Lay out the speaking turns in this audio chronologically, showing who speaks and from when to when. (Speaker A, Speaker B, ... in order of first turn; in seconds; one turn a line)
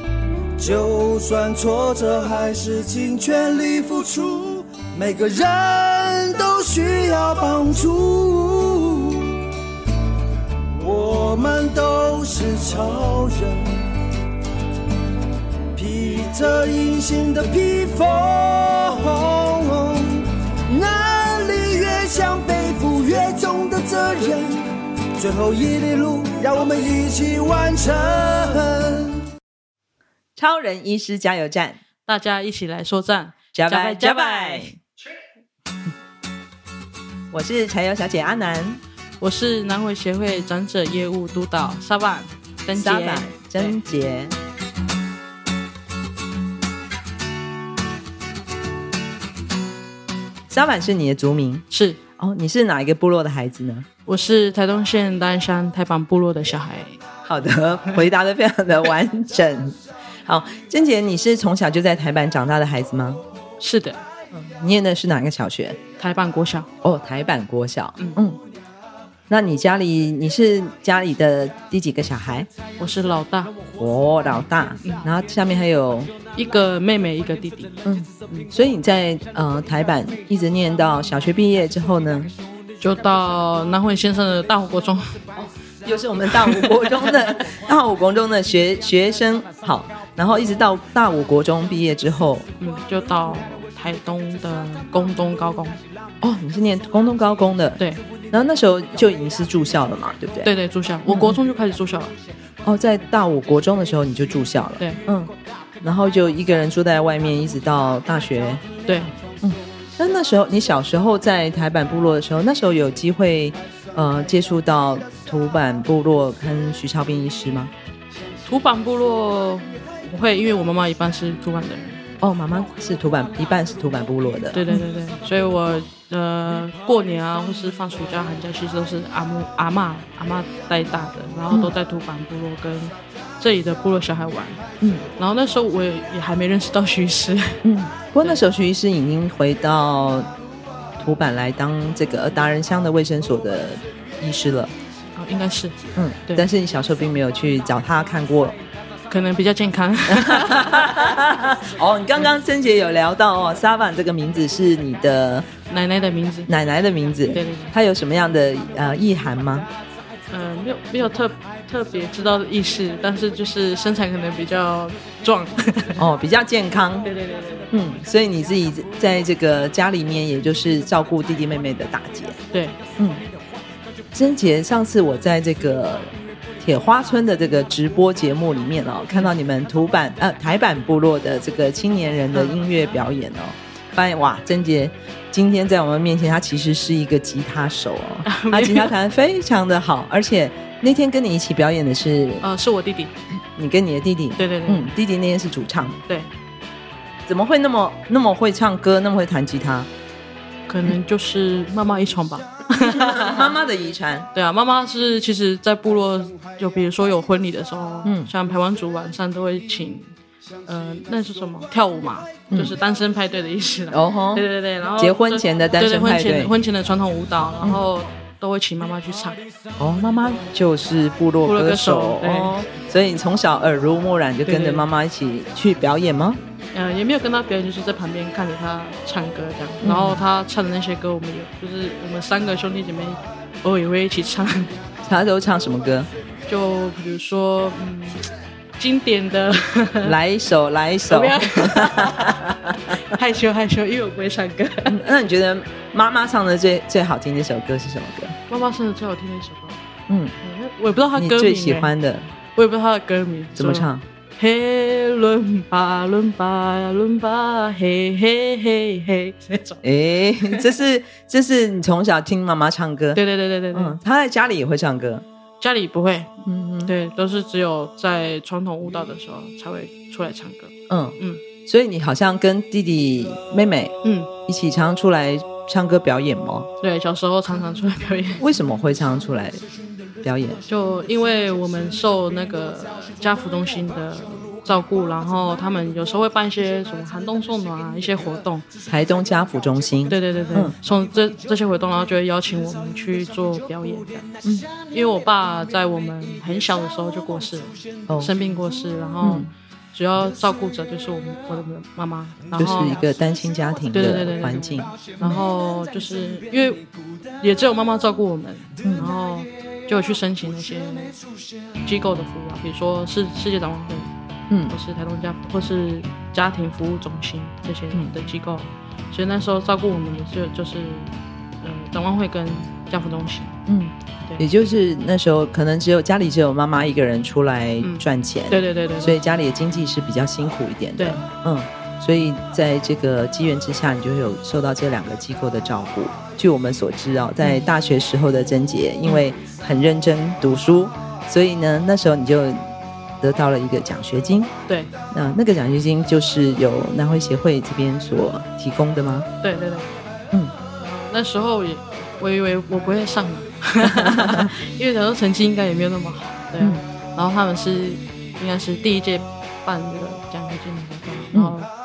Speaker A: 0.6-9.4
Speaker A: 10.8-13.8
Speaker A: 15.8-24.6
Speaker A: 25.2-29.2
Speaker B: 30.4-31.8
Speaker C: 32.1-34.8
Speaker B: 33.5-34.7
Speaker B: 37.3-38.8
Speaker C: 39.2-43.8
Speaker B: 42.7-44.4
Speaker B: 50.5-51.6
Speaker C: 51.7-52.0
Speaker B: 52.2-53.9
Speaker C: 54.1-57.0
Speaker B: 57.2-63.2
Speaker C: 63.6-64.0
Speaker B: 64.3-65.8
Speaker C: 66.0-66.7
Speaker B: 66.8-68.4
Speaker B: 69.3-72.5
Speaker C: 72.8-73.5
Speaker B: 73.8-76.1
Speaker C: 74.8-75.0
Speaker C: 76.3-77.7
Speaker B: 77.8-82.3
Speaker C: 82.8-85.2
Speaker B: 85.3-92.5
Speaker C: 86.3-87.3
Speaker C: 92.6-95.8
Speaker B: 96.2-100.5
Speaker C: 97.8-98.0
Speaker C: 100.4-102.2
Speaker B: 101.1-101.4
Speaker B: 102.6-108.6
Speaker C: 108.8-109.1
Speaker B: 109.4-117.7
Speaker C: 118.5-122.0
Speaker B: 122.2-124.8
Speaker C: 124.5-134.7
Speaker B: 131.5-131.8
Speaker B: 134.8-135.1
Speaker C: 135.2-137.6
Speaker B: 137.6-140.3
Speaker B: 141.0-144.7
Speaker C: 145.2-146.5
Speaker B: 145.9-148.6
Speaker C: 149.1-150.8
Speaker B: 150.1-155.5
Speaker C: 155.7-156.5
Speaker B: 156.5-159.7
Speaker C: 157.3-157.7
Speaker C: 160.3-166.0
Speaker B: 166.0-167.1
Speaker C: 167.0-167.7
Speaker B: 167.7-172.4
Speaker C: 172.5-172.8
Speaker B: 173.0-173.2
Speaker B: 174.1-192.4
Speaker C: 188.2-188.9
Speaker C: 192.4-193.1
Speaker B: 193.6-196.0
Speaker C: 194.4-194.9
Speaker B: 197.3-199.9
Speaker C: 200.7-203.5
Speaker B: 202.9-204.3
Speaker C: 204.3-219.4
Speaker B: 208.0-208.3
Speaker B: 212.5-212.8
Speaker B: 213.9-216.6
Speaker B: 219.8-226.4
Speaker C: 221.4-222.6
Speaker C: 224.4-224.8
Speaker C: 226.7-234.7
Speaker B: 229.8-230.2
Speaker B: 235.0-236.1
Speaker C: 236.5-240.1
Speaker B: 240.0-243.2
Speaker C: 241.1-245.0
Speaker B: 244.9-248.3
Speaker C: 248.5-249.8
Speaker B: 250.1-250.3
Speaker C: 250.4-251.9
Speaker B: 251.2-252.3
Speaker C: 252.6-259.8
Speaker B: 253.6-254.0
Speaker B: 259.8-263.2
Speaker C: 263.1-264.0
Speaker B: 263.7-265.2
Speaker C: 265.6-266.3
Speaker B: 266.4-266.9
Speaker C: 266.9-271.4
Speaker B: 270.9-273.9
Speaker C: 274.0-274.3
Speaker B: 274.5-276.7
Speaker C: 276.8-278.4
Speaker B: 278.4-279.6
Speaker B: 280.2-280.6
Speaker C: 280.7-288.7
Speaker B: 288.9-290.8
Speaker C: 290.1-294.3
Speaker B: 294.4-294.7
Speaker C: 294.9-303.0
Speaker B: 298.1-298.3
Speaker B: 299.2-299.5
Speaker B: 302.5-305.4
Speaker C: 303.9-306.8
Speaker C: 307.4-311.2
Speaker B: 308.8-309.1
Speaker C: 311.8-314.1
Speaker B: 314.5-314.8
Speaker C: 314.7-323.6
Speaker B: 323.7-344.5
Speaker C: 327.8-329.2
Speaker C: 331.0-331.2
Speaker C: 344.7-344.9
Speaker B: 345.1-349.3
Speaker C: 349.4-350.0
Speaker C: 350.8-361.7
Speaker B: 353.8-354.5
Speaker B: 356.6-356.8